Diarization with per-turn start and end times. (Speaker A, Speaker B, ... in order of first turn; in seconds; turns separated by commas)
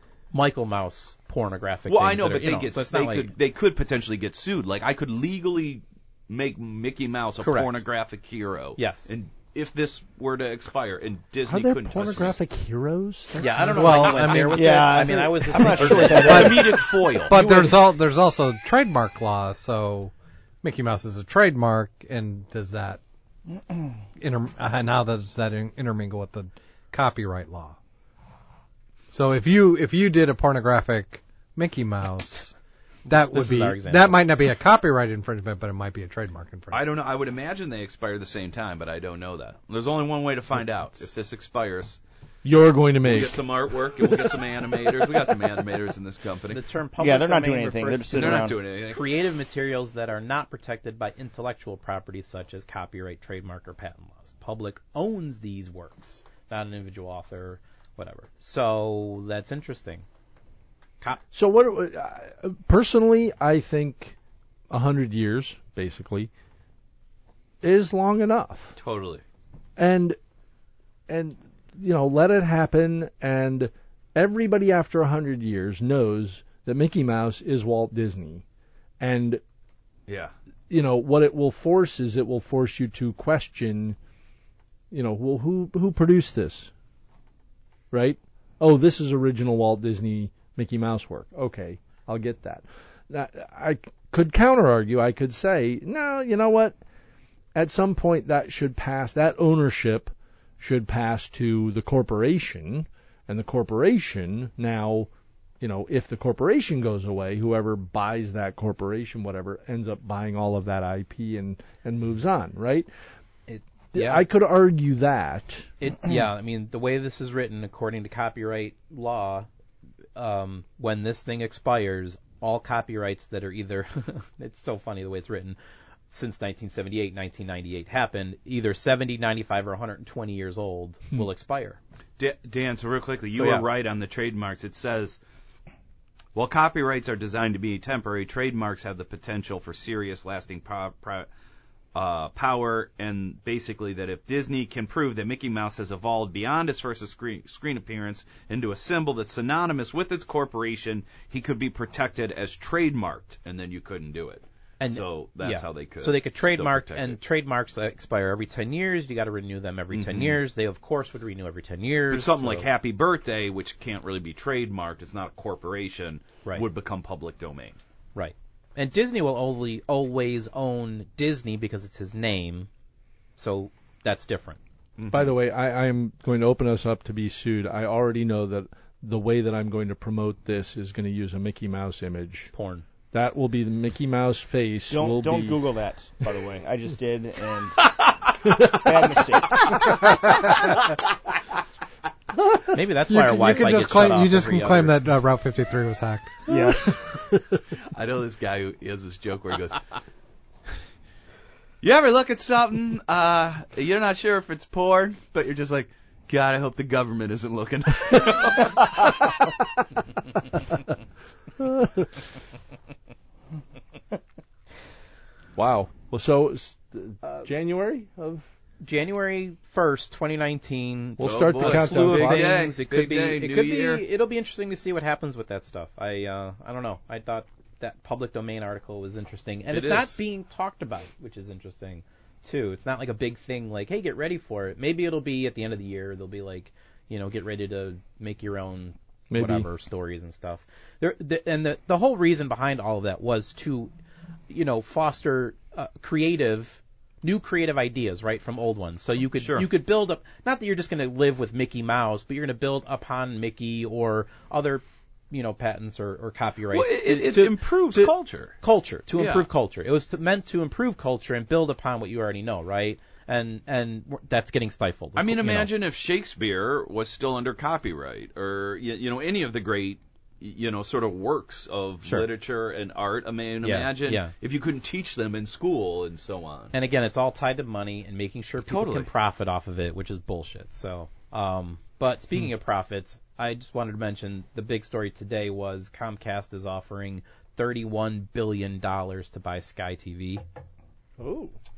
Speaker A: 0.3-3.3, Speaker B: 1.9-12.4, Speaker A: 7.4-7.8, Speaker A: 8.8-9.1, Speaker C: 11.5-14.5, Speaker A: 13.4-16.7, Speaker D: 13.7-15.2, Speaker E: 14.3-16.9, Speaker B: 15.9-17.7, Speaker D: 16.2-23.0, Speaker D: 24.2-27.8, Speaker D: 29.1-32.5, Speaker D: 33.1-36.8, Speaker A: 33.1-34.2, Speaker B: 36.7-42.0, Speaker C: 42.4-43.5, Speaker B: 43.0-46.6, Speaker A: 46.5-60.0, Speaker E: 47.0-48.6, Speaker B: 48.1-49.1, Speaker C: 61.3-64.2, Speaker C: 64.7-66.3, Speaker C: 67.6-68.8, Speaker B: 68.8-69.2, Speaker C: 69.8-70.2, Speaker C: 71.1-78.4, Speaker C: 79.0-79.4, Speaker B: 80.1-80.3, Speaker C: 80.7-84.0, Speaker C: 84.9-86.7, Speaker C: 87.9-96.8, Speaker C: 97.5-105.1, Speaker C: 105.6-112.9, Speaker A: 113.5-114.2, Speaker C: 113.9-115.7, Speaker A: 115.8-119.5, Speaker A: 120.2-125.6, Speaker A: 126.1-131.8, Speaker B: 132.2-135.2, Speaker A: 133.3-133.7, Speaker B: 136.3-141.3, Speaker B: 141.9-157.2, Speaker A: 154.8-162.7, Speaker B: 159.9-160.4, Speaker B: 162.1-167.8, Speaker A: 168.2-172.7, Speaker A: 173.4-174.6, Speaker B: 175.0-175.3, Speaker C: 175.1-182.5, Speaker A: 182.5-182.8, Speaker C: 183.1-185.6, Speaker E: 184.9-187.9, Speaker B: 187.8-188.3, Speaker E: 188.6-190.1, Speaker A: 192.7-195.0, Speaker D: 193.1-196.5, Speaker E: 196.5-197.0, Speaker C: 196.5-197.6, Speaker B: 197.9-199.8, Speaker B: 201.8-209.4, Speaker C: 211.6-212.2, Speaker C: 215.6-218.5, Speaker A: 218.8-243.9, Speaker C: 221.2-222.6, Speaker B: 221.2-224.1, Speaker B: 229.7-230.2, Speaker C: 239.3-239.7, Speaker A: 244.5-265.7, Speaker B: 249.3-249.7, Speaker B: 256.7-258.6, Speaker B: 259.2-259.5, Speaker B: 265.2-276.7, Speaker A: 273.6-274.3, Speaker A: 276.7-290.4, Speaker B: 278.7-279.1, Speaker C: 291.2-291.5